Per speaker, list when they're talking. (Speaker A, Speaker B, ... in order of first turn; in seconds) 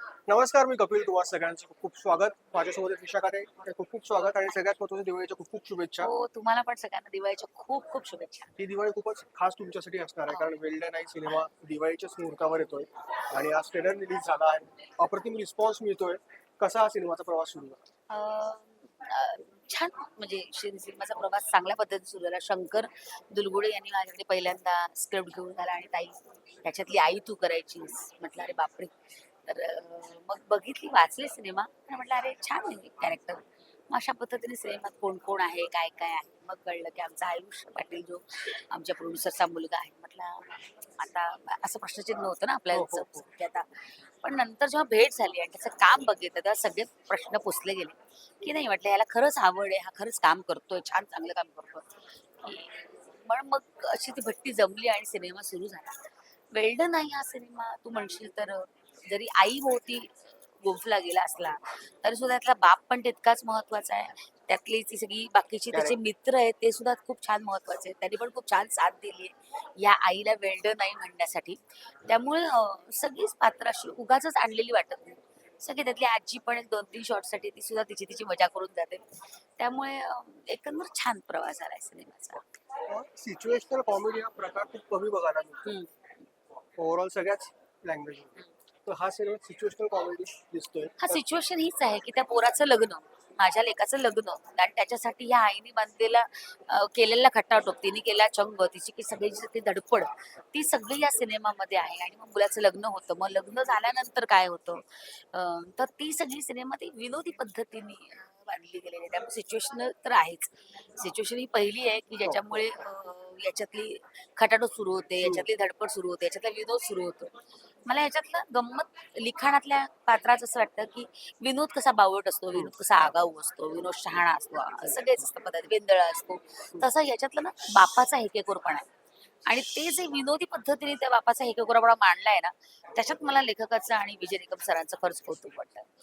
Speaker A: 0.3-6.1, 8.6-17.8, 42.7-43.3, 82.9-85.8, 86.8-91.2, 112.2-112.6, 115.2-115.5, 124.8-125.3
Speaker B: 6.0-8.5, 10.3-10.6, 18.1-79.1, 79.6-82.4, 85.7-85.9, 91.0-128.9, 129.5-135.9